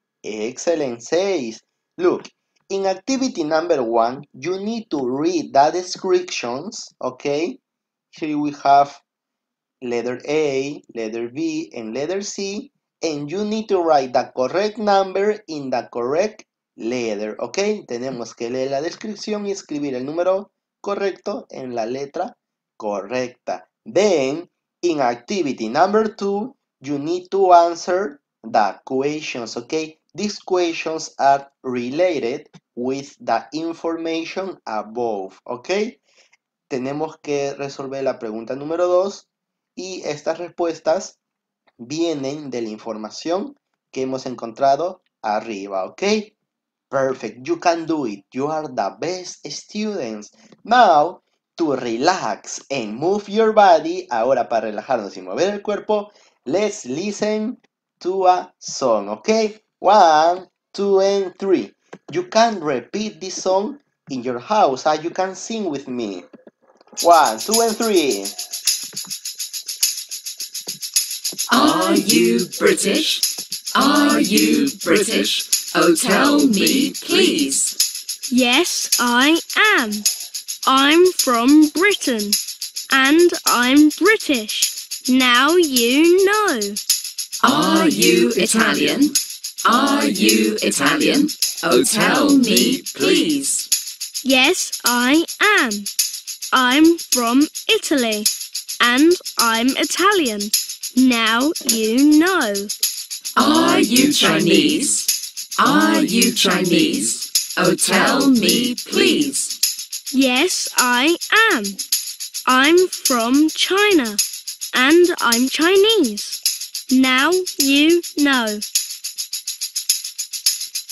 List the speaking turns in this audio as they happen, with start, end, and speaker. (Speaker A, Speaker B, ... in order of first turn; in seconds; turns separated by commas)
Speaker A: 0.2-7.6, Speaker A: 8.1-9.0, Speaker A: 9.8-36.0, Speaker A: 36.7-41.2, Speaker A: 41.8-46.3, Speaker A: 46.9-66.2, Speaker A: 67.0-68.3, Speaker B: 71.5-77.7, Speaker C: 78.3-80.1, Speaker C: 80.7-82.4, Speaker C: 82.9-86.8, Speaker B: 87.4-93.7, Speaker C: 94.2-95.9, Speaker C: 96.5-98.3, Speaker C: 98.8-102.7, Speaker B: 103.3-109.5, Speaker C: 110.1-111.8, Speaker C: 112.5-114.2, Speaker C: 114.7-116.4, Speaker C: 116.9-118.6